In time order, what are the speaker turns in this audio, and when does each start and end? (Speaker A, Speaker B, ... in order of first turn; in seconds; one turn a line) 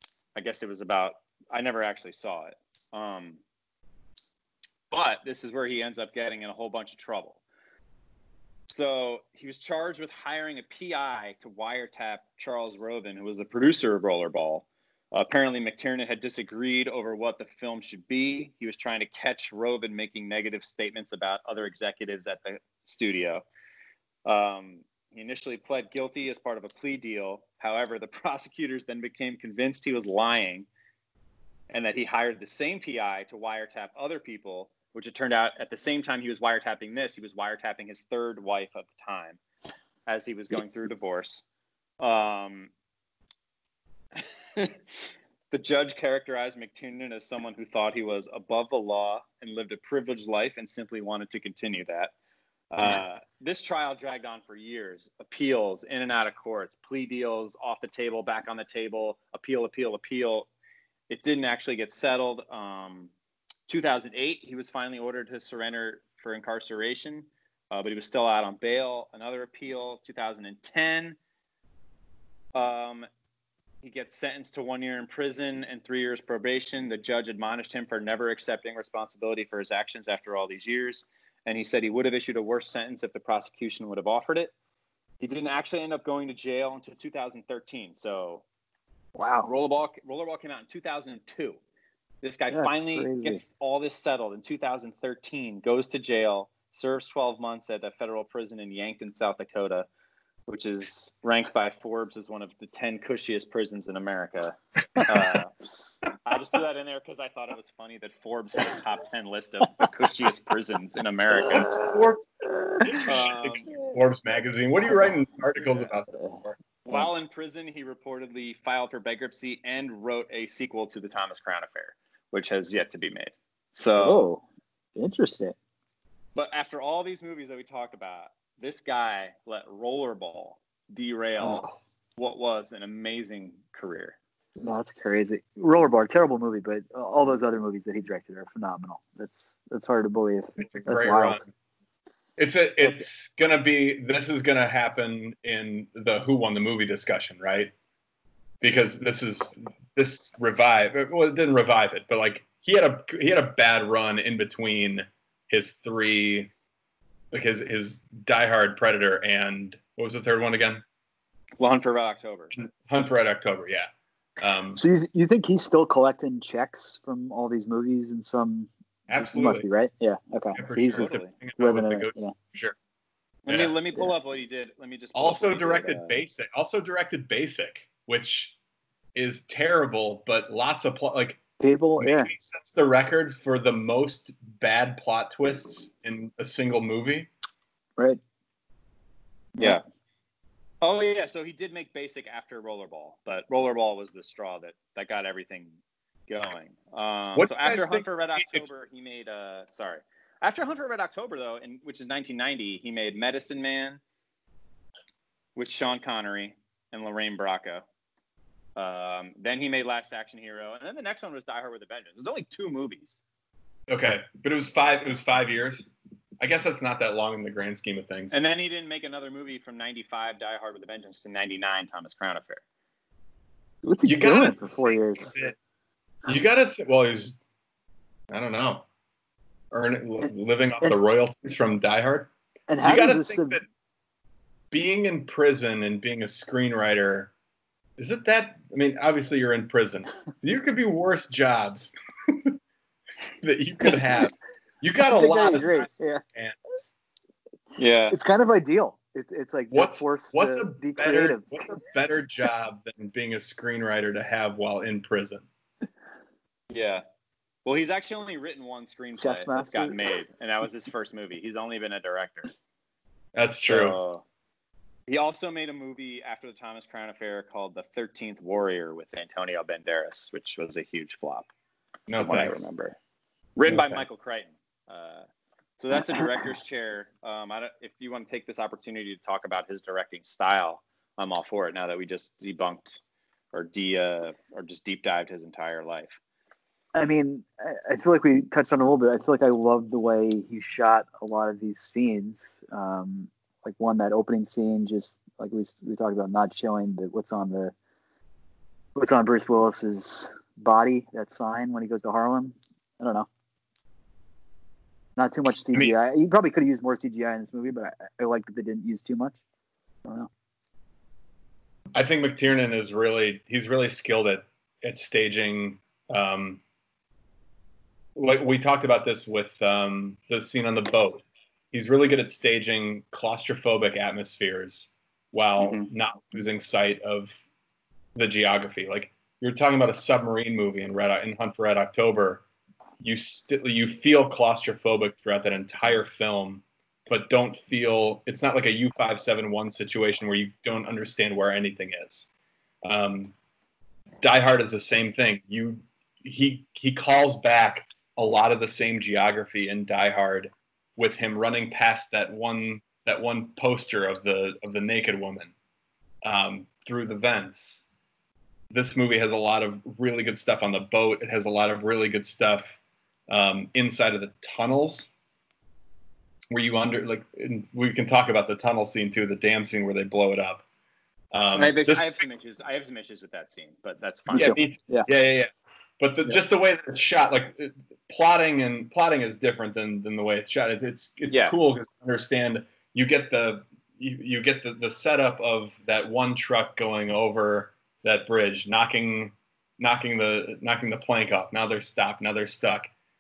Speaker A: 0.3-3.4
Speaker A: 4.9-7.4
Speaker A: 8.7-23.4
Speaker A: 24.2-30.7
Speaker A: 31.7-39.4
Speaker A: 40.1-41.5
Speaker A: 42.0-42.7
Speaker A: 44.6-52.1
Speaker A: 52.7-60.5
Speaker A: 61.1-63.1
Speaker A: 63.7-71.2
Speaker A: 72.5-73.1
Speaker A: 73.8-84.5
Speaker A: 85.2-88.4
Speaker B: 89.2-89.5
Speaker A: 89.5-91.6
Speaker A: 92.2-99.9
Speaker B: 92.5-93.4
Speaker A: 100.5-105.5
Speaker C: 105.0-105.4
Speaker A: 106.2-111.8
Speaker B: 111.5-113.1
Speaker C: 111.5-112.3
Speaker C: 112.8-116.6
Speaker A: 113.0-113.8
Speaker B: 116.1-116.4
Speaker A: 116.8-124.3
Speaker B: 124.0-124.4
Speaker B: 125.0-125.6
Speaker A: 126.3-131.7
Speaker B: 131.4-131.7
Speaker A: 132.2-134.2
Speaker B: 134.6-141.4
Speaker C: 140.6-141.4
Speaker C: 142.4-147.7
Speaker C: 148.6-156.5
Speaker C: 157.3-160.8
Speaker A: 161.6-162.6
Speaker C: 162.5-164.8
Speaker B: 164.8-172.3
Speaker C: 169.1-169.7
Speaker C: 170.6-172.8
Speaker A: 170.9-171.3
Speaker A: 173.4-176.2
Speaker C: 173.5-173.8
Speaker C: 175.2-178.6
Speaker C: 179.2-181.4
Speaker B: 181.6-182.3
Speaker C: 182.0-187.3
Speaker A: 189.6-189.8
Speaker A: 190.8-195.8
Speaker A: 196.3-204.0
Speaker C: 197.3-198.7
Speaker A: 205.6-207.8
Speaker A: 208.8-213.2
Speaker C: 213.9-218.3
Speaker A: 218.3-222.6
Speaker B: 223.8-225.3
Speaker C: 224.0-225.6
Speaker C: 226.3-227.4
Speaker C: 228.3-228.9
Speaker C: 229.7-232.3
Speaker B: 232.7-233.6
Speaker C: 232.8-233.7
Speaker C: 234.7-237.3
Speaker C: 238.0-242.6
Speaker C: 243.4-246.9
Speaker B: 245.1-246.2
Speaker A: 247.8-248.2
Speaker B: 248.1-251.7
Speaker C: 249.7-255.5
Speaker A: 256.7-257.0
Speaker A: 257.6-262.5
Speaker B: 259.2-260.0
Speaker C: 263.4-264.0
Speaker A: 263.7-264.2
Speaker A: 265.1-271.5
Speaker C: 272.1-272.7
Speaker A: 272.2-273.0
Speaker A: 273.6-275.2
Speaker C: 273.7-274.0
Speaker A: 275.8-283.0
Speaker A: 283.5-286.2
Speaker B: 286.9-297.7
Speaker B: 298.9-303.3
Speaker B: 305.2-309.4
Speaker C: 311.9-316.6
Speaker C: 318.1-327.4
Speaker C: 328.1-332.4
Speaker C: 333.0-342.3
Speaker C: 342.8-343.3
Speaker C: 344.2-355.5
Speaker C: 356.2-357.9
Speaker C: 358.7-362.8
Speaker C: 363.3-365.1
Speaker C: 366.5-370.6
Speaker C: 371.3-372.2
Speaker A: 371.6-374.6
Speaker B: 374.3-375.1
Speaker C: 374.3-392.9
Speaker A: 381.3-381.6